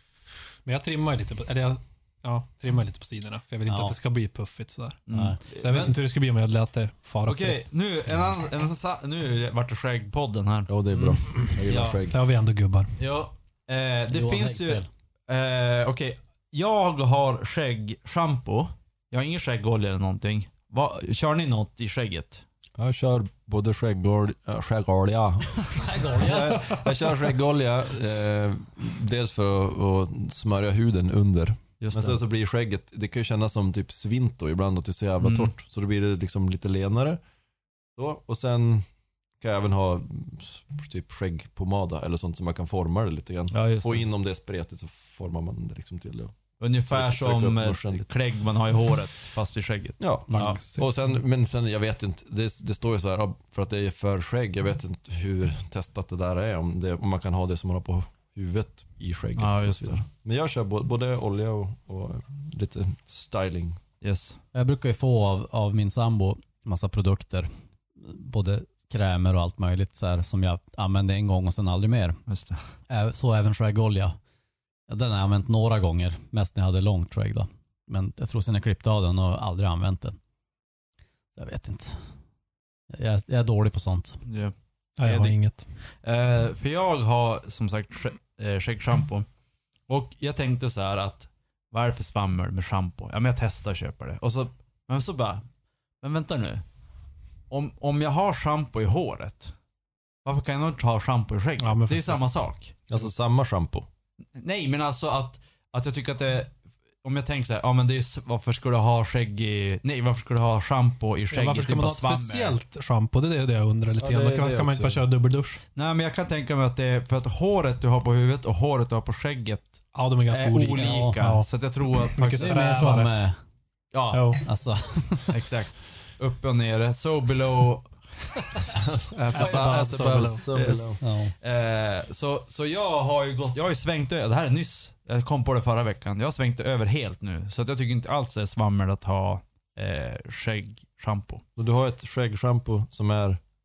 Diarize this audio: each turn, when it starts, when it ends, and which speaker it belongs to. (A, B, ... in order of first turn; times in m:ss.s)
0:00.6-0:07.7 A
0:03.7-0:04.0 B
0:05.1-0:05.9 C
0:05.1-0:05.4 B
0:07.2-0:12.0 C
0:10.7-0:12.2 D
0:12.1-0:12.9 A
0:13.0-0:22.4 C
0:14.1-0:14.9 B
0:22.8-0:37.2 D
0:25.8-0:26.8 B
0:31.8-0:32.2 C
0:35.2-0:35.5 C
0:38.0-0:38.8 D
0:39.4-0:46.3 D
0:43.5-0:44.0 C
0:46.6-0:50.6 C
0:46.9-0:48.0 D
0:50.0-1:03.8 D
0:50.3-0:50.8 B
0:59.4-1:00.0 C
1:04.0-1:04.4 C
1:04.5-1:07.5 B
1:08.0-1:12.2 B
1:12.3-1:12.6 C
1:12.9-1:14.2 B
1:14.9-1:20.2 B
1:21.4-1:22.0 B
1:22.9-1:24.2 B
1:24.2-1:25.4 C
1:25.0-1:25.7 A
1:26.0-1:29.3 C
1:29.9-1:35.4 C
1:36.0-1:36.6 C
1:37.5-1:39.5 C
1:40.2-1:42.8 C
1:41.6-1:42.2 A
1:42.9-1:43.9 D
1:44.4-1:52.6 C
1:51.3-1:55.6 A
1:54.0-1:55.0 D
1:55.8-2:02.6 C
1:59.9-2:03.1 A
2:00.7-2:01.2 B
2:02.4-2:03.4 B
2:03.9-2:04.4 C
2:04.1-2:04.4 A
2:04.4-2:05.3 B
2:05.3-2:08.5 C
2:08.6-2:11.0 D
2:09.3-2:21.4 C
2:09.3-2:10.5 A
2:11.0-2:11.3 B
2:21.6-2:23.4 D